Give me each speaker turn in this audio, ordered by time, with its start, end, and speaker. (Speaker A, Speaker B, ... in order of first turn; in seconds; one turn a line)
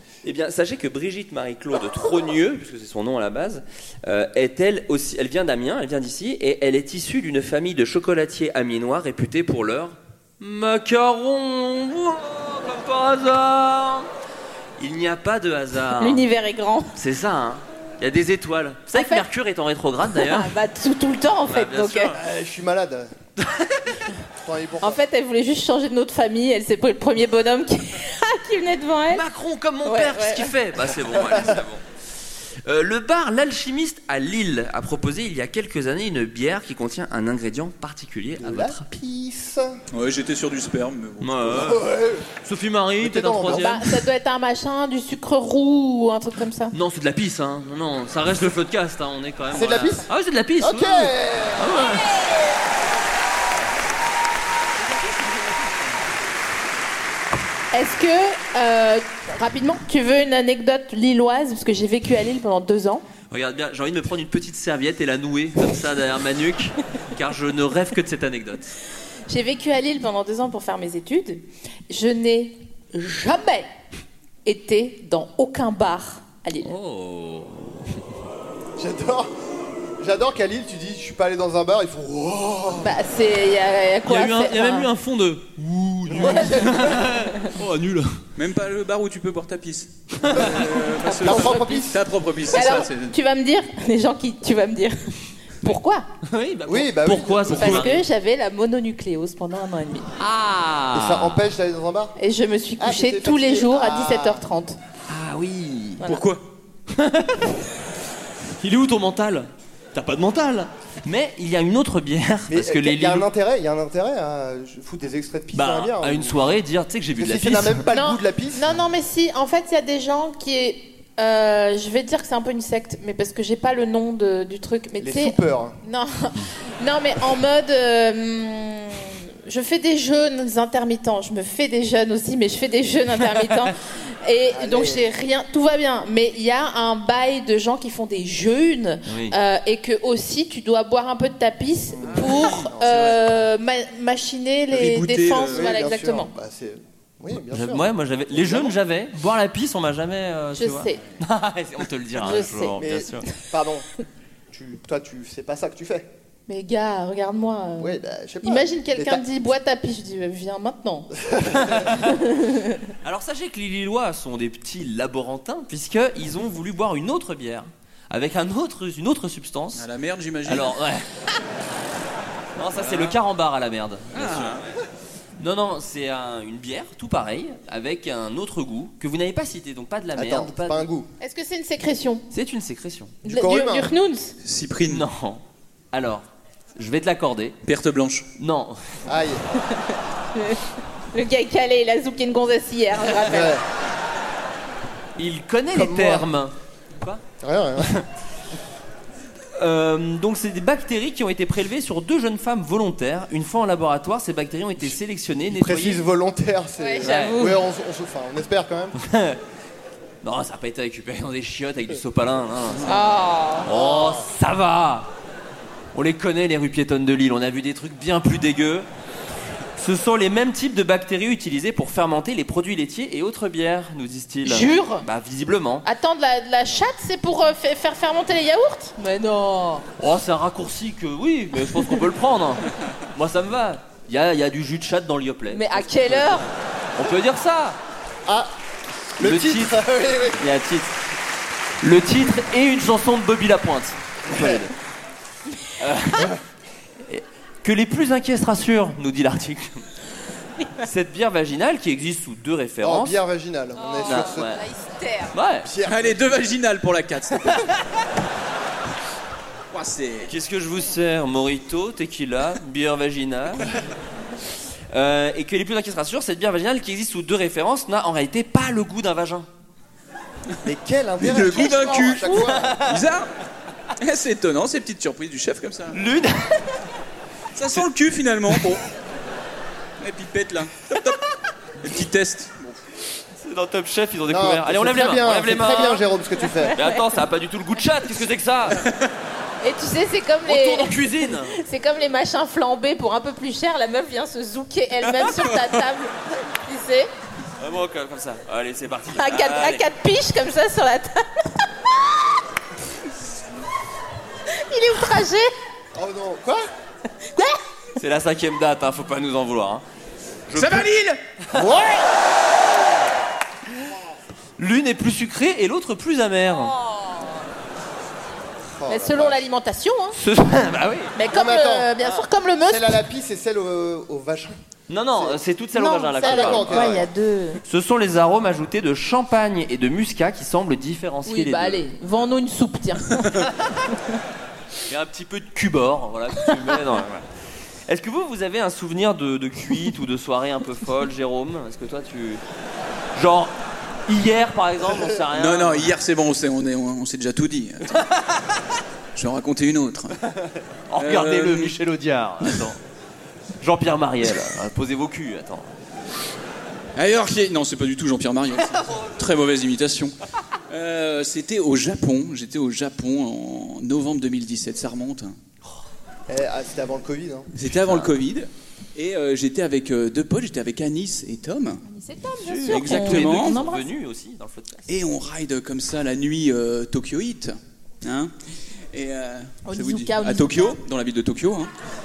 Speaker A: 0.2-14.1
Speaker A: 14.8-16.2
Speaker B: 16.0-16.9
Speaker A: 16.9-20.5
Speaker B: 18.9-19.2
Speaker B: 20.1-22.1
Speaker A: 21.5-22.2
Speaker C: 22.1-23.1
Speaker A: 23.4-24.0
Speaker C: 24.4-25.0
Speaker B: 24.8-29.2
Speaker A: 29.1-31.8
Speaker B: 29.8-30.5
Speaker A: 32.6-38.8
Speaker C: 38.4-39.8
Speaker D: 39.9-41.8
Speaker A: 41.2-41.8
Speaker C: 41.5-42.3
Speaker A: 42.4-43.8
Speaker C: 43.0-43.8
Speaker B: 43.5-46.7
Speaker A: 46.7-52.1
Speaker C: 49.5-50.1
Speaker C: 50.6-51.8
Speaker A: 54.8-55.8
Speaker B: 57.7-63.0
Speaker A: 63.3-68.7
Speaker B: 69.3-73.7
Speaker B: 74.4-76.7
Speaker A: 76.6-78.0
Speaker C: 78.8-79.3
Speaker C: 80.0-82.9
Speaker B: 82.8-84.9
Speaker A: 84.0-88.2
Speaker C: 86.1-87.0
Speaker D: 88.3-93.1
Speaker A: 90.2-90.5
Speaker C: 90.3-90.7
Speaker B: 91.1-91.9
Speaker C: 91.2-92.0
Speaker B: 92.5-96.1
Speaker A: 96.2-98.0
Speaker C: 96.7-97.8
Speaker B: 97.6-100.1
Speaker A: 100.2-101.5
Speaker C: 100.9-102.1
Speaker B: 102.2-104.8
Speaker C: 102.8-104.4
Speaker A: 105.1-106.0
Speaker D: 106.0-106.4
Speaker A: 106.9-107.5
Speaker A: 108.6-113.3
Speaker C: 112.5-116.5
Speaker A: 115.5-117.8
Speaker C: 117.2-118.7
Speaker B: 117.9-146.3
Speaker C: 125.0-125.8
Speaker C: 134.5-135.0
Speaker A: 139.1-139.3
Speaker C: 141.9-143.1
Speaker D: 142.2-143.2
Speaker D: 144.7-145.7
Speaker C: 145.5-148.8
Speaker A: 147.5-153.3
Speaker B: 150.6-151.0
Speaker B: 152.2-152.8
Speaker C: 152.8-153.9
Speaker C: 154.5-156.1
Speaker B: 156.5-161.1
Speaker C: 157.8-159.2
Speaker C: 161.2-161.9
Speaker A: 161.6-162.1
Speaker B: 162.0-162.9
Speaker A: 163.0-169.8
Speaker D: 169.7-170.8
Speaker A: 170.4-171.1
Speaker A: 172.6-174.6
Speaker D: 172.7-173.2
Speaker D: 174.1-174.7
Speaker A: 175.4-180.9
Speaker C: 180.2-181.1
Speaker B: 181.2-182.2
Speaker A: 182.3-183.2
Speaker B: 183.2-184.3
Speaker C: 183.2-183.9
Speaker D: 184.4-185.0
Speaker A: 184.8-187.6
Speaker D: 187.6-188.3
Speaker A: 188.4-188.8
Speaker C: 189.1-189.4
Speaker B: 189.6-193.6
Speaker C: 193.2-193.6
Speaker A: 195.2-197.2
Speaker C: 195.7-196.3
Speaker C: 197.4-197.9
Speaker A: 199.6-206.1
Speaker C: 205.5-208.9
Speaker B: 206.8-207.6
Speaker A: 207.0-207.4
Speaker A: 208.9-209.4
Speaker A: 210.2-212.9
Speaker B: 212.8-213.7
Speaker A: 213.6-215.1
Speaker A: 215.9-218.9
Speaker A: 219.8-225.8
Speaker B: 224.4-225.1
Speaker B: 225.8-229.8
Speaker A: 230.0-237.8
Speaker B: 235.5-236.5
Speaker C: 238.2-238.5
Speaker C: 239.2-240.4
Speaker A: 239.2-239.8
Speaker A: 240.3-240.9
Speaker A: 241.8-244.7
Speaker C: 244.3-244.6
Speaker A: 245.8-246.3
Speaker A: 247.1-249.8
Speaker A: 250.8-253.2
Speaker C: 252.8-254.5
Speaker B: 253.8-255.3
Speaker A: 254.0-254.6
Speaker A: 255.3-255.7
Speaker C: 255.6-256.4
Speaker D: 255.8-257.6
Speaker D: 259.7-260.3
Speaker A: 260.3-263.7
Speaker A: 264.9-269.5
Speaker C: 270.6-272.8
Speaker D: 271.2-273.3
Speaker A: 272.0-273.0
Speaker D: 274.0-276.0
Speaker A: 275.9-276.8
Speaker D: 277.5-278.8
Speaker D: 280.0-281.2
Speaker D: 281.8-282.8
Speaker A: 283.4-286.0
Speaker C: 284.3-286.8
Speaker B: 286.5-287.0
Speaker A: 286.8-288.8
Speaker B: 289.6-297.1
Speaker A: 290.4-291.6
Speaker A: 297.6-299.8
Speaker B: 299.1-301.6
Speaker B: 304.5-305.5
Speaker C: 305.9-306.6
Speaker B: 307.3-307.6
Speaker A: 308.0-309.8
Speaker A: 310.5-310.9
Speaker D: 310.5-311.2
Speaker C: 311.5-312.1
Speaker A: 314.6-316.7
Speaker C: 318.8-319.4
Speaker B: 318.9-320.2
Speaker A: 320.1-321.1
Speaker B: 321.1-323.0
Speaker C: 321.3-321.9
Speaker C: 322.6-324.6
Speaker A: 324.9-327.0
Speaker C: 325.1-325.4
Speaker B: 325.7-327.6
Speaker C: 326.2-327.1
Speaker A: 327.6-331.8
Speaker B: 331.3-333.5
Speaker A: 334.9-337.2
Speaker A: 337.9-342.4
Speaker A: 343.1-343.5
Speaker A: 344.1-345.9
Speaker D: 345.3-348.0
Speaker D: 349.1-350.1
Speaker A: 350.9-352.8
Speaker D: 351.0-351.8
Speaker A: 353.6-355.7
Speaker D: 356.9-360.1
Speaker D: 360.7-365.4
Speaker C: 366.3-367.5
Speaker D: 367.5-371.8
Speaker A: 367.8-368.1
Speaker B: 371.8-373.9
Speaker A: 372.4-374.9
Speaker D: 372.7-373.6
Speaker D: 374.9-378.3
Speaker D: 378.9-381.7
Speaker B: 379.6-380.8